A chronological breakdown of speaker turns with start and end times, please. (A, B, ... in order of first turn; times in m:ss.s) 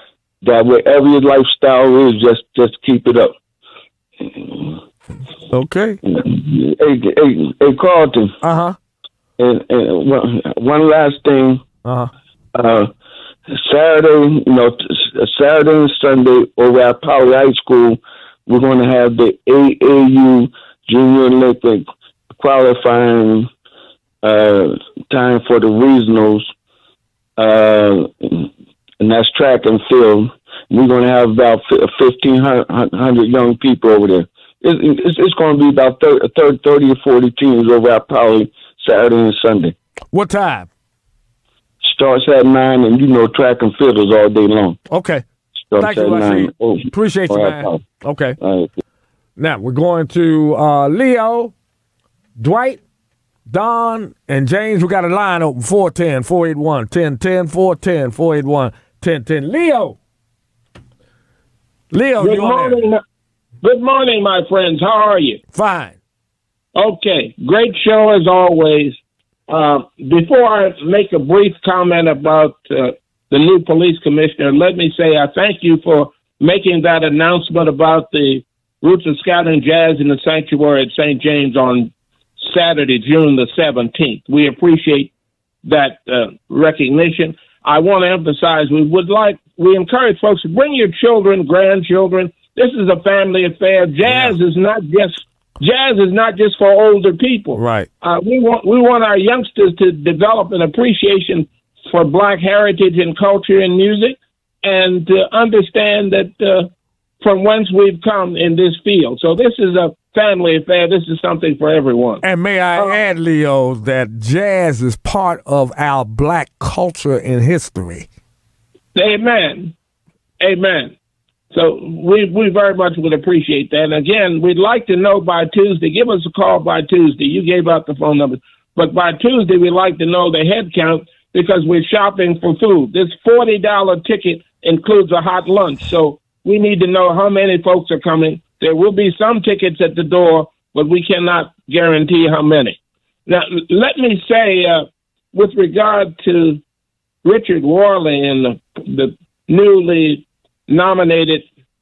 0:00.4-0:03.4 A
0:04.2-0:04.8 A
0:05.5-0:06.0 B
0:06.1-0:08.3 A
0:08.4-0:08.8 B
0:09.4-0:11.6 A
0:11.8-0:12.1 B
0:12.6-0:12.9 A
0:13.5-0:21.9 A
0:22.4-0:23.5 A
0:24.2-0:26.5 A
0:27.4-0:28.5 A
0:29.0-0:39.7 A
0:40.1-0:40.7 B
0:41.8-0:44.8 A
0:44.9-0:45.2 B
0:45.7-0:47.8 A
0:45.8-0:48.4 B
0:48.4-0:48.7 A
0:49.4-0:51.5 B
0:52.4-0:52.8 B
0:53.5-1:00.0 B
1:01.9-1:02.9 B
1:02.2-1:03.0 C
1:03.6-1:05.4 C
1:05.5-1:06.0 B
1:06.8-1:09.0 C
1:09.5-1:25.1 C
1:25.6-1:46.7 C
1:34.1-1:34.4 B
1:37.6-1:37.9 B
1:47.2-1:52.2 C
1:52.2-1:58.1 B
1:59.0-1:59.7 C
2:00.4-2:00.9 C
2:01.5-2:26.6 C
2:27.2-2:31.5 C